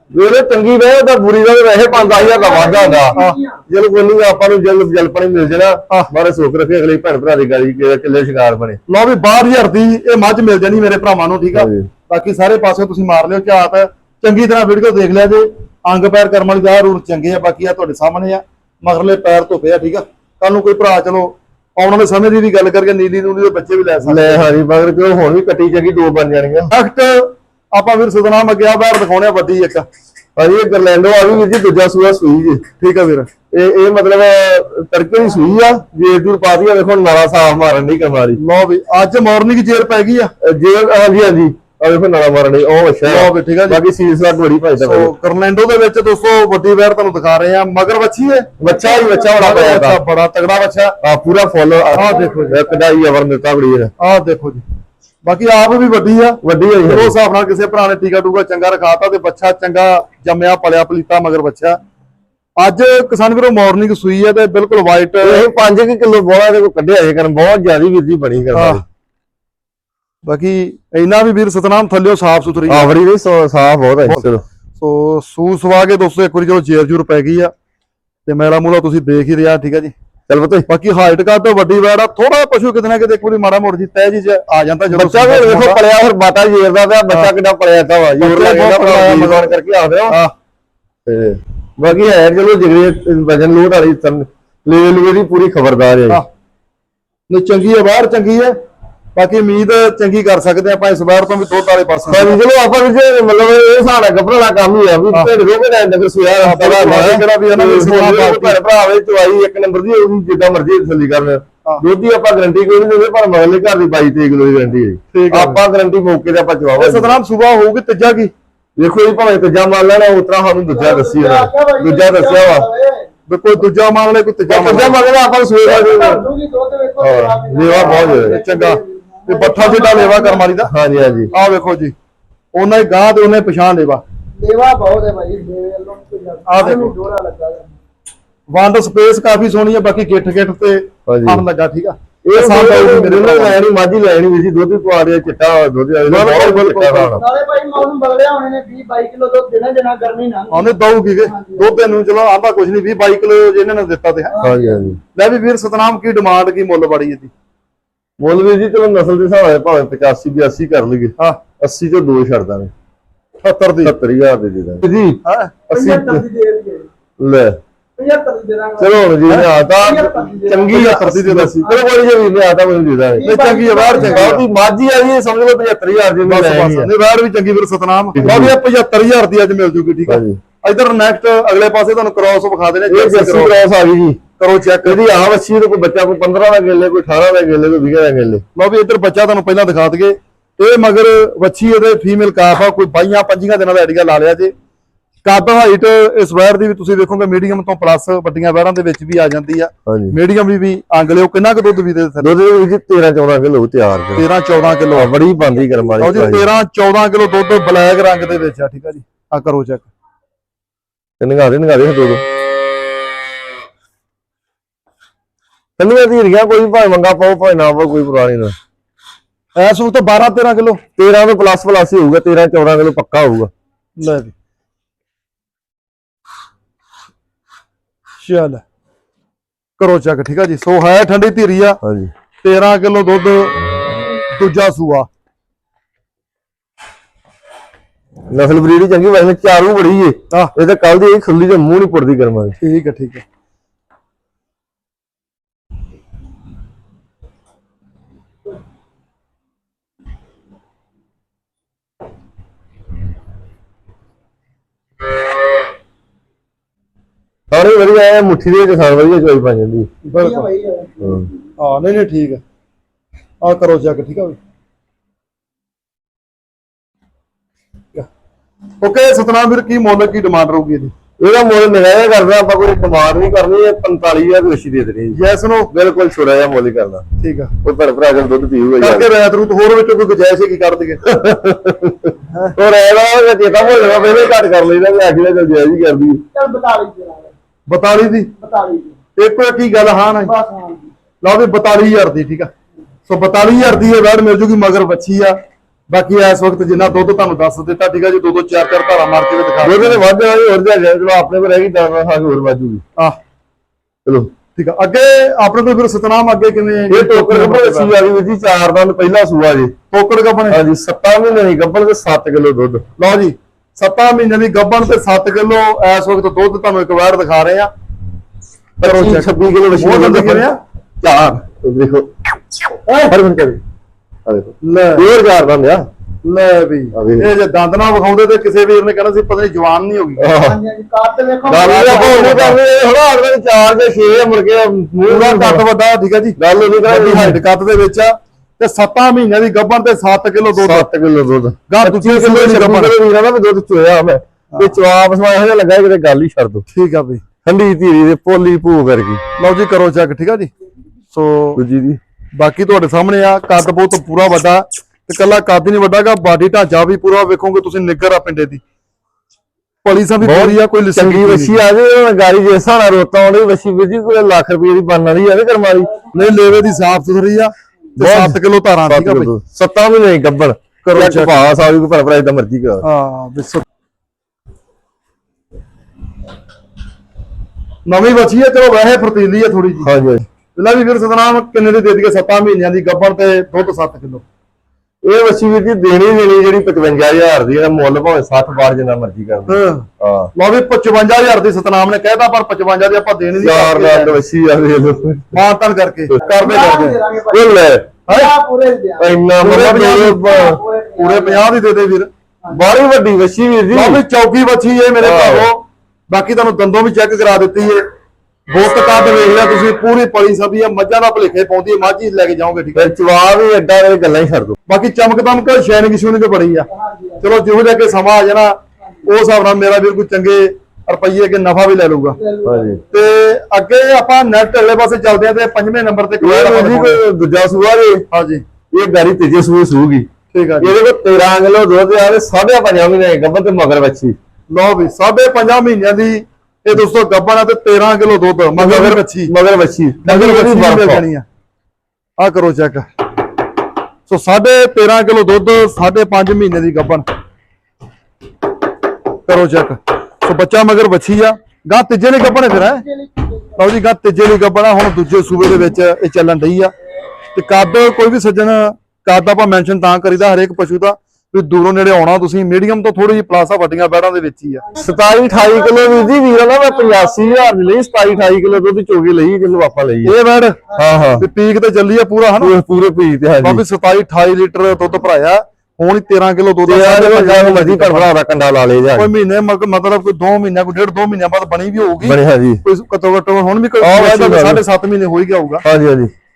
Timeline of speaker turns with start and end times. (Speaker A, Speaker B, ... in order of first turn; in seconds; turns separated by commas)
Speaker A: 0.1-3.2, Speaker B: 1.9-3.6, Speaker A: 3.7-8.8, Speaker C: 8.9-24.5, Speaker A: 11.5-11.9, Speaker A: 24.0-26.7, Speaker C: 26.7-29.9, Speaker A: 30.4-32.6, Speaker C: 32.8-33.3, Speaker A: 33.5-38.4, Speaker C: 38.4-40.3, Speaker A: 40.4-45.1, Speaker C: 43.0-43.8, Speaker C: 44.8-48.5, Speaker A: 48.6-50.0, Speaker B: 48.6-49.4, Speaker C: 49.3-51.0, Speaker A: 51.0-53.9, Speaker C: 51.9-52.6, Speaker B: 51.9-52.8, Speaker C: 54.0-54.6, Speaker C: 55.2-61.8, Speaker A: 56.4-57.1, Speaker C: 62.6-65.5, Speaker A: 65.2-68.8, Speaker C: 68.5-68.8, Speaker C: 70.2-72.9, Speaker A: 72.7-74.4, Speaker C: 74.8-77.5, Speaker C: 78.2-79.9, Speaker A: 80.3-80.7, Speaker C: 80.7-85.8, Speaker A: 84.9-90.2, Speaker C: 88.2-90.3, Speaker A: 91.0-96.2, Speaker C: 97.3-98.5, Speaker C: 99.1-102.4, Speaker A: 102.1-117.2, Speaker C: 106.4-108.6, Speaker C: 115.1-115.6, Speaker C: 116.8-118.3, Speaker A: 118.8-122.7, Speaker B: 120.7-123.1, Speaker C: 123.3-125.0, Speaker A: 124.5-126.2, Speaker B: 125.6-130.5, Speaker A: 127.0-128.4, Speaker C: 127.7-130.7, Speaker A: 130.7-131.3, Speaker B: 131.1-131.4, Speaker C: 131.3-131.9, Speaker C: 132.5-134.0, Speaker B: 134.4-137.7, Speaker C: 136.5-136.9, Speaker C: 138.5-143.6, Speaker A: 141.1-141.4, Speaker A: 142.2-147.2, Speaker C: 146.1-147.2, Speaker B: 147.2-151.9, Speaker C: 150.5-154.3, Speaker B: 154.3-154.8, Speaker A: 154.4-155.0, Speaker C: 155.1-157.3, Speaker A: 158.2-162.7, Speaker C: 163.4-163.9, Speaker A: 163.8-165.2, Speaker C: 165.2-165.5, Speaker B: 165.7-166.9, Speaker A: 165.7-166.2, Speaker A: 167.2-167.6, Speaker B: 168.0-170.9, Speaker A: 168.8-173.3, Speaker C: 170.7-171.5, Speaker B: 171.6-172.1, Speaker B: 173.1-174.4, Speaker C: 173.2-174.4, Speaker A: 173.8-176.9, Speaker C: 176.2-183.5, Speaker A: 178.1-178.5, Speaker A: 180.1-180.4, Speaker A: 182.9-184.2, Speaker C: 184.4-185.0, Speaker A: 184.8-188.4, Speaker C: 188.5-194.5, Speaker C: 195.2-202.3, Speaker A: 199.9-200.1, Speaker A: 202.2-204.2, Speaker C: 204.2-205.1, Speaker A: 204.9-206.5, Speaker C: 206.0-209.9, Speaker A: 211.2-212.2, Speaker A: 215.8-218.6, Speaker C: 219.6-220.8, Speaker A: 221.0-223.5, Speaker C: 224.0-224.3, Speaker C: 228.2-228.6, Speaker C: 229.8-231.8, Speaker A: 231.8-232.1, Speaker C: 232.4-233.6, Speaker C: 234.3-235.1, Speaker A: 238.3-242.6, Speaker C: 242.6-243.2, Speaker A: 257.5-259.9, Speaker C: 260.0-260.5, Speaker B: 260.2-261.4, Speaker A: 261.0-261.3, Speaker C: 261.6-262.4, Speaker C: 263.4-264.4, Speaker C: 268.8-270.9, Speaker A: 271.2-277.0, Speaker C: 275.1-275.7, Speaker C: 277.2-277.5, Speaker A: 277.6-279.1, Speaker C: 278.8-281.0, Speaker A: 281.0-286.2, Speaker B: 286.3-287.3, Speaker C: 287.7-288.3, Speaker B: 288.4-289.0, Speaker C: 289.1-290.3, Speaker B: 290.1-290.9, Speaker C: 291.2-292.5, Speaker C: 293.1-295.4, Speaker C: 295.9-300.0, Speaker A: 299.6-302.8, Speaker C: 304.6-307.9, Speaker A: 306.9-309.7, Speaker C: 309.9-310.6, Speaker A: 310.5-312.8, Speaker C: 313.0-317.7, Speaker A: 318.8-320.5, Speaker C: 318.8-320.6, Speaker A: 321.0-322.1, Speaker C: 322.9-323.1, Speaker A: 323.1-323.6, Speaker A: 324.2-325.9, Speaker C: 324.6-325.1, Speaker C: 326.2-330.3, Speaker A: 326.9-327.3, Speaker A: 330.2-330.6, Speaker B: 330.4-332.4, Speaker A: 331.4-335.6, Speaker C: 331.5-332.6, Speaker C: 335.0-340.9, Speaker A: 336.4-337.4, Speaker A: 340.6-346.6, Speaker C: 341.7-342.9, Speaker C: 346.7-347.2, Speaker A: 347.4-349.2, Speaker C: 349.4-350.5, Speaker C: 351.1-351.6, Speaker A: 351.6-352.0, Speaker C: 352.4-358.6, Speaker C: 359.8-361.6, Speaker A: 360.2-365.9, Speaker C: 366.1-369.3, Speaker A: 368.0-372.8, Speaker C: 370.8-371.4, Speaker C: 372.8-373.6, Speaker C: 377.9-379.9, Speaker A: 379.8-380.2, Speaker C: 380.5-384.2, Speaker A: 385.0-390.3, Speaker C: 389.5-394.2, Speaker A: 393.4-395.4, Speaker C: 395.3-397.0, Speaker A: 396.1-397.8, Speaker B: 396.2-399.2, Speaker C: 398.1-398.3, Speaker A: 399.0-400.6, Speaker C: 399.4-400.2, Speaker B: 400.2-401.4, Speaker C: 401.0-402.1, Speaker A: 402.5-404.0, Speaker C: 403.7-407.8, Speaker A: 405.0-405.5, Speaker C: 408.5-412.9, Speaker A: 412.7-414.6, Speaker C: 414.7-416.7, Speaker B: 416.7-417.2, Speaker C: 417.2-422.2, Speaker B: 422.1-423.0, Speaker A: 422.4-422.8, Speaker C: 422.9-427.0, Speaker A: 426.2-428.0, Speaker C: 428.1-428.4, Speaker A: 428.7-430.1, Speaker C: 430.3-430.8, Speaker A: 430.6-434.1, Speaker C: 434.5-439.3, Speaker A: 438.6-441.0, Speaker C: 440.0-441.2, Speaker C: 442.2-442.9, Speaker C: 444.1-447.0, Speaker C: 449.2-452.8, Speaker B: 452.6-453.6, Speaker C: 453.6-456.7, Speaker C: 457.3-464.6, Speaker B: 464.7-468.4, Speaker A: 464.8-470.1, Speaker C: 470.0-470.6, Speaker A: 470.7-471.2, Speaker C: 471.2-472.5, Speaker A: 472.4-473.6, Speaker C: 473.4-478.1, Speaker A: 476.7-479.1, Speaker C: 478.9-485.6, Speaker A: 482.0-482.6, Speaker A: 483.8-484.6, Speaker A: 485.6-486.1